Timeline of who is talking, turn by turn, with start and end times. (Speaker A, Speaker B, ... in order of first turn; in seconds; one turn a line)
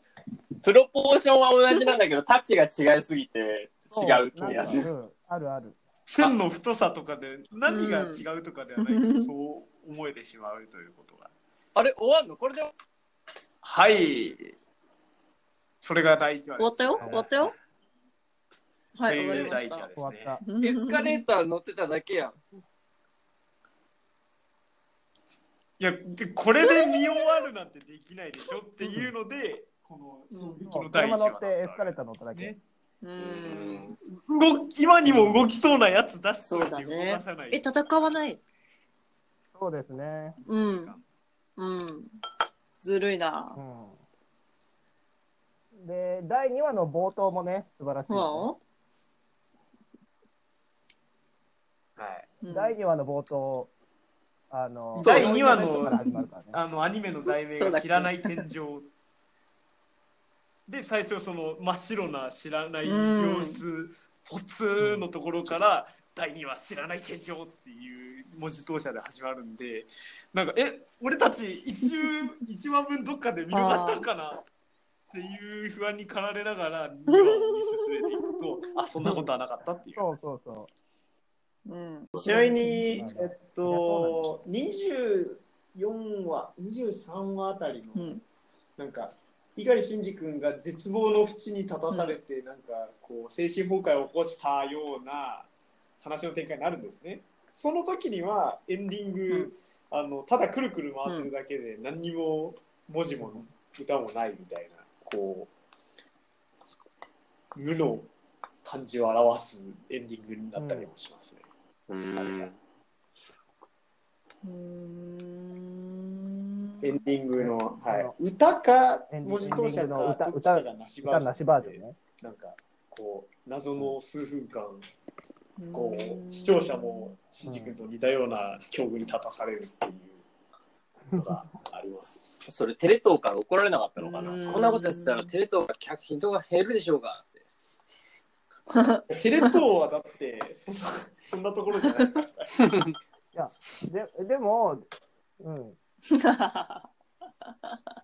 Speaker A: 0.6-4.9
Speaker B: 3.9-5.8
Speaker C: 4.5-4.8
Speaker C: 6.1-11.3
Speaker D: 7.7-8.2
Speaker D: 8.8-9.3
Speaker A: 11.8-12.7
Speaker C: 13.6-14.6
Speaker C: 15.8-17.6
Speaker D: 16.6-17.6
Speaker D: 18.9-19.9
Speaker C: 19.0-20.4
Speaker B: 20.0-20.4
Speaker D: 20.4-21.2
Speaker A: 20.6-22.4
Speaker C: 25.8-32.6
Speaker D: 26.7-26.9
Speaker D: 30.3-30.7
Speaker B: 30.7-32.5
Speaker D: 33.0-33.9
Speaker A: 33.2-34.0
Speaker C: 34.0-37.7
Speaker B: 35.0-35.4
Speaker D: 36.5-38.4
Speaker B: 39.5-40.4
Speaker C: 40.4-41.0
Speaker D: 40.5-40.9
Speaker D: 41.6-42.1
Speaker D: 42.8-43.6
Speaker B: 43.6-44.0
Speaker B: 45.8-48.5
Speaker D: 48.1-48.6
Speaker C: 52.0-52.4
Speaker D: 52.4-52.8
Speaker B: 52.5-53.7
Speaker B: 54.5-56.6
Speaker D: 55.0-56.3
Speaker C: 55.0-58.9
Speaker A: 55.0-55.7
Speaker D: 57.5-58.5
Speaker C: 60.7-74.5
Speaker D: 62.9-63.6
Speaker D: 73.5-74.1
Speaker C: 75.1-80.1
Speaker D: 77.1-78.1
Speaker B: 80.0-80.7
Speaker D: 81.7-83.1
Speaker C: 82.2-88.2
Speaker B: 83.0-84.3
Speaker D: 88.0-88.2
Speaker C: 88.8-95.5
Speaker D: 91.9-92.2
Speaker C: 96.0-105.5
Speaker C: 107.5-108.1
Speaker C: 108.6-111.4
Speaker B: 110.6-110.9
Speaker A: 111.9-112.6
Speaker C: 112.2-112.5
Speaker D: 114.4-117.0
Speaker C: 116.8-124.8
Speaker B: 117.4-118.1
Speaker B: 119.1-122.0
Speaker D: 125.6-127.1
Speaker C: 125.7-130.2
Speaker B: 127.4-127.8
Speaker C: 131.1-132.4
Speaker A: 132.4-137.4
Speaker D: 134.0-135.3
Speaker D: 138.7-139.0
Speaker C: 139.1-142.5
Speaker A: 142.6-142.9
Speaker B: 143.3-144.8
Speaker B: 145.4-145.8
Speaker D: 146.1-146.8